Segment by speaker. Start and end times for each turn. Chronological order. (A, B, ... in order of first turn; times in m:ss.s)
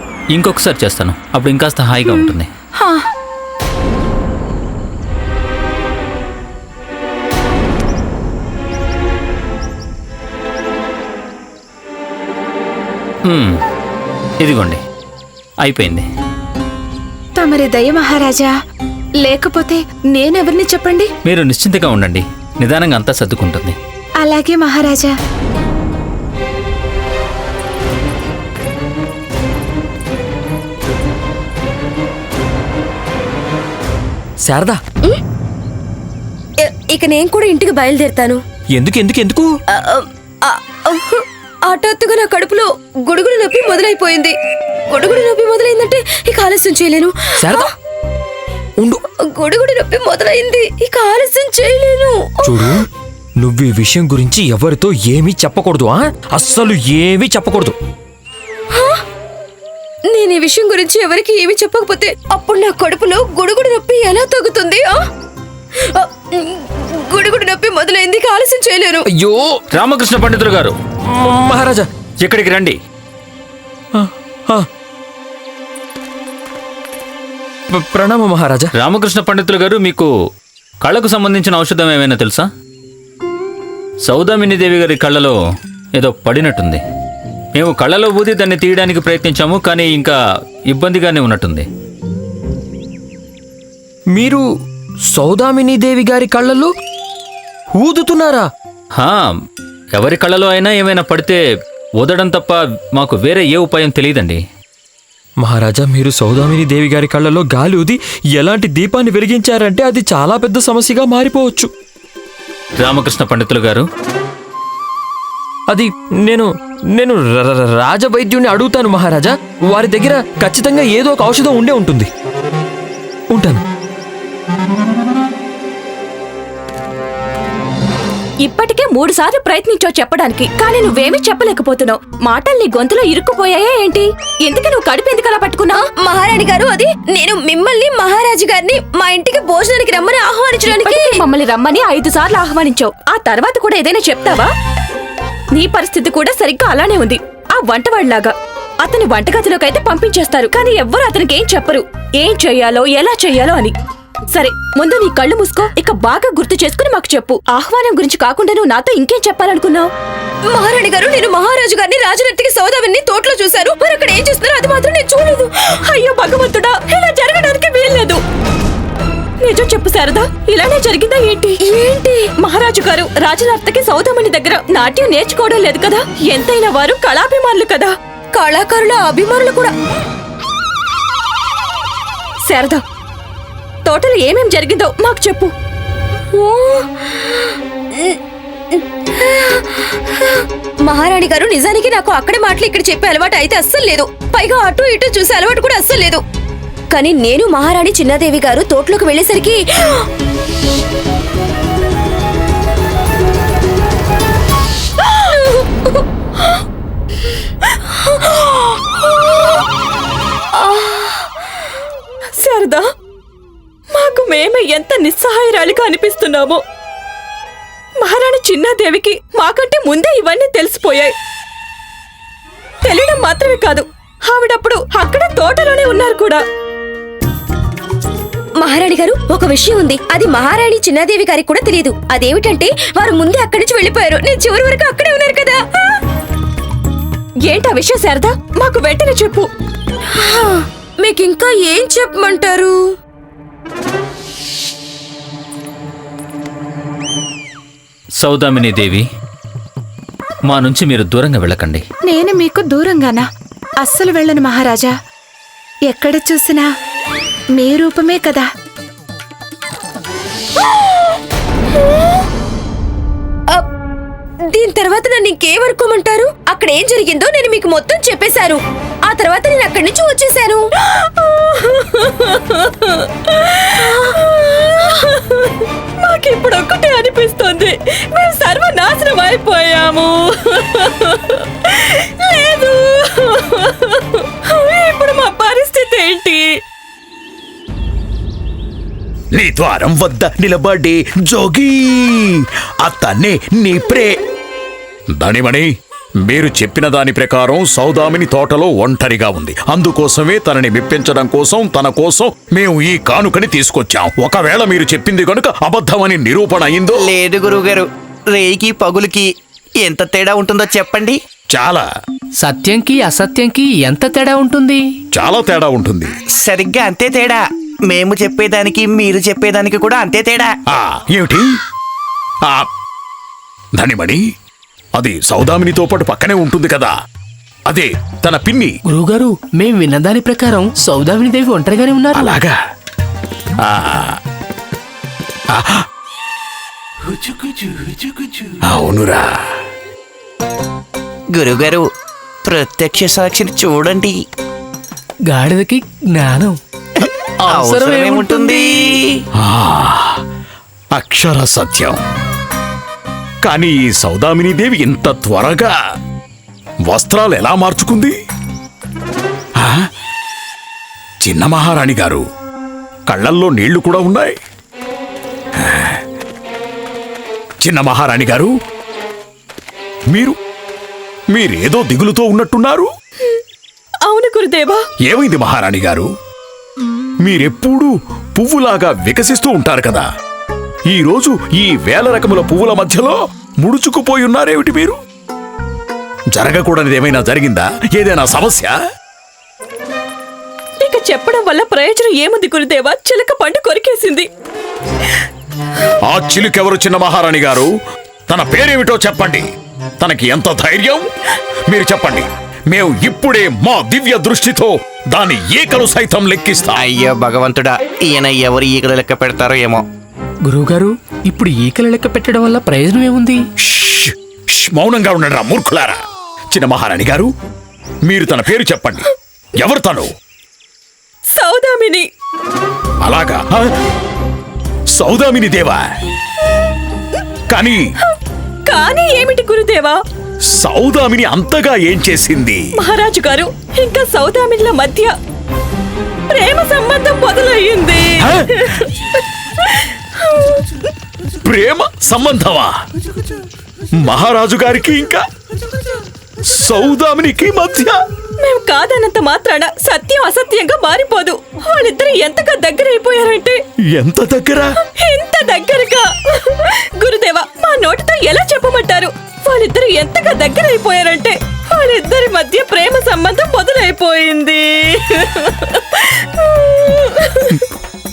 0:00.3-0:02.5 A
0:02.8-0:03.0 B
0:13.2-0:13.6 A
0:14.4-0:14.8 A
0:15.6-0:16.1 A
0:17.4-0:18.5 B
0:19.2-0:21.1 B
0:21.2-0:23.8 A
0:24.2-0:25.1 B
0:34.4-0:34.8 C
0:36.6-0:38.4 D
0:38.7-0:39.5 C
0:39.7-0:44.3 D
0:44.9-0:47.7 D
0:47.4-0:47.7 C
0:49.2-0:52.8 D
0:52.4-0:52.8 C
0:53.4-0:57.7 C
0:58.7-0:59.0 D
1:00.1-1:05.0 D
1:05.8-1:09.0 D
1:09.1-1:09.6 C
1:09.7-1:10.8 A
1:11.1-1:11.9 C
1:12.2-1:12.8 A
1:13.9-1:14.7 C
1:17.7-1:18.7 C
1:18.7-1:20.1 A
1:20.8-1:22.5 A
1:24.0-1:25.3 A
1:26.0-1:26.8 A
1:27.5-1:30.2 A
1:30.7-1:31.6 A
1:34.1-1:34.4 C
1:35.1-1:36.7 C
1:37.8-1:38.5 C
1:39.0-1:39.4 A
1:39.9-1:41.4 A
1:42.0-1:44.4 A
1:45.4-1:51.7 C
1:52.8-1:53.9 A
1:55.7-2:02.1 C
2:03.3-2:03.6 C
2:08.4-2:15.8 E
2:15.9-2:21.2 D
2:20.6-2:24.5 E
2:25.5-2:33.8 E
2:34.3-2:39.9 E
2:40.5-2:45.5 D
2:45.9-2:48.2 E
2:49.4-2:51.6 E
2:51.6-2:52.3 D
2:52.4-2:57.9 E
2:58.3-2:59.7 D
3:02.5-3:02.8 E
3:03.8-3:05.5 E
3:06.3-3:08.2 D
3:08.7-3:16.2 D
3:16.9-3:20.1 D
3:25.1-3:26.0 D
3:28.0-3:29.3 D
3:30.6-3:31.3 D
3:32.4-3:32.9 E
3:33.9-3:36.6 E
3:38.0-3:41.1 E
3:42.8-3:46.4 E
3:48.6-3:56.0 D
3:57.4-3:59.5 E
4:00.1-4:02.8 D
4:08.2-4:09.0 A
4:10.5-4:11.8 A
4:12.0-4:13.3 B
4:13.8-4:14.9 B
4:15.9-4:16.7 B
4:17.5-4:18.5 B
4:24.5-4:30.6 D
4:30.9-4:46.5 E
4:49.3-4:54.2 F
4:55.2-4:55.7 F
4:56.2-5:07.1 F
5:07.0-5:09.3 G
5:09.8-5:11.2 G
5:11.5-5:11.8 F
5:12.4-5:14.8 H
5:15.1-5:16.1 F
5:16.3-5:20.5 G
5:20.7-5:21.5 F
5:23.8-5:24.2 F
5:25.0-5:26.9 F
5:27.7-5:28.7 F
5:28.9-5:32.4 H
5:32.1-5:32.6 F
5:33.6-5:34.2 F
5:35.5-5:35.8 F
5:38.6-5:39.3 F
5:41.3-5:41.8 G
5:42.4-5:44.1 G
5:45.3-5:46.6 H
5:47.0-5:49.2 G
5:47.4-5:48.9 H
5:49.4-5:50.2 F
5:50.9-5:52.0 F
5:53.4-5:55.7 F
5:56.9-5:58.2 F
5:59.6-5:59.9 F
6:01.2-6:02.2 F
6:03.1-6:04.4 F
6:05.5-6:06.0 F
6:07.6-6:08.5 F
6:10.1-6:10.4 F
6:11.3-6:12.9 F
6:14.0-6:14.8 E
6:15.0-6:16.1 F
6:17.2-6:20.0 F
6:20.9-6:25.0 F
6:26.3-6:28.7 F
6:30.8-6:34.3 E
6:36.1-6:37.7 F
6:38.3-6:39.4 F
6:40.0-6:41.1 F
6:41.7-6:46.8 F
6:46.8-6:49.8 G
6:50.4-6:53.4 H
6:53.6-6:57.3 F
6:58.0-6:59.0 F
6:59.6-7:00.1 F
7:01.3-7:02.0 E
7:03.0-7:03.7 F
7:04.9-7:05.8 F
7:07.5-7:07.9 F
7:08.0-7:10.0 E
7:10.5-7:12.6 F
7:12.8-7:15.1 E
7:16.3-7:20.8 E
7:18.2-7:18.7 F
7:21.4-7:22.7 F
7:24.0-7:25.2 F
7:26.5-7:28.0 F
7:28.4-7:33.6 E
7:33.9-7:34.7 F
7:35.0-7:47.6 E